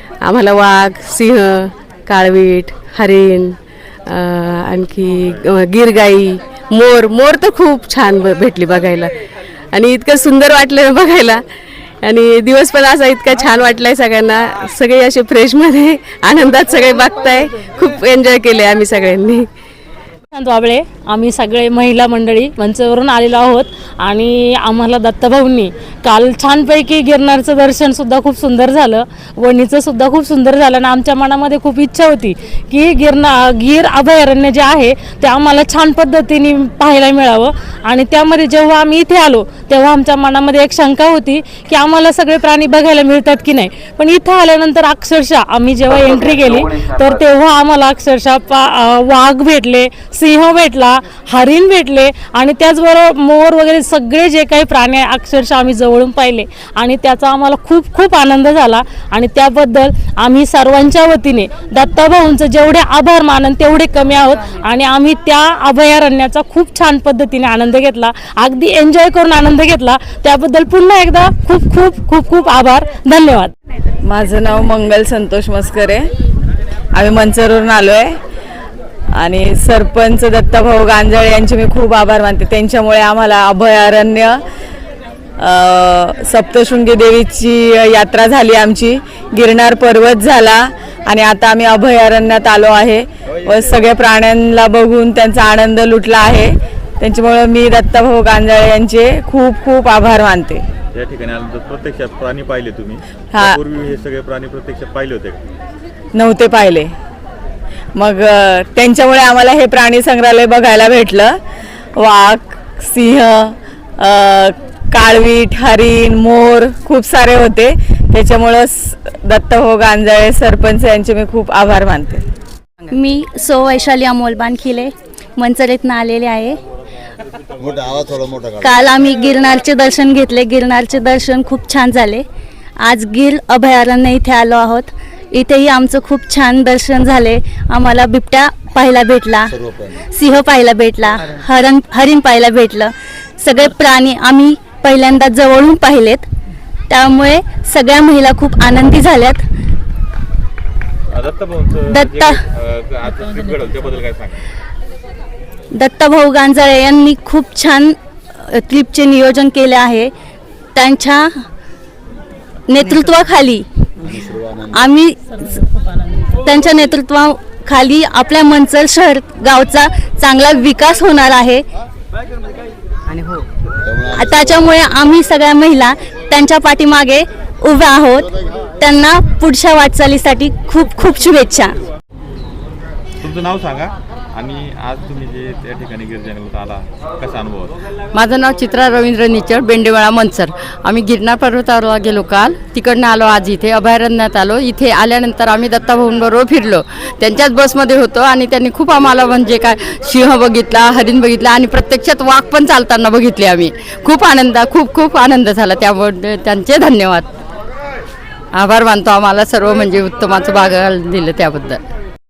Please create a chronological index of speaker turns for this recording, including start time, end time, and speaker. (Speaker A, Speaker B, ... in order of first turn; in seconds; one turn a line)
Speaker A: 0.2-3.5
Speaker A: 4.1-9.1
Speaker A: 9.7-11.4
Speaker A: 12.0-19.4
Speaker B: 20.3-73.5
Speaker C: 74.0-76.1
Speaker C: 76.9-78.1
Speaker C: 79.2-84.4
Speaker C: 85.4-100.6
Speaker D: 100.9-105.4
Speaker C: 103.3-103.6
Speaker C: 106.1-106.9
Speaker C: 108.0-111.4
Speaker C: 112.0-122.2
Speaker E: 122.9-126.6
Speaker E: 128.6-132.2
Speaker E: 132.8-146.2
Speaker E: 146.9-149.4
Speaker D: 151.1-154.4
Speaker E: 151.9-152.4
Speaker E: 155.7-160.1
Speaker E: 160.7-161.3
Speaker E: 162.7-163.7
Speaker E: 164.7-165.6
Speaker E: 166.4-171.6
Speaker E: 174.1-181.8
Speaker D: 183.2-187.7
Speaker F: 188.3-207.2
Speaker F: 208.5-211.8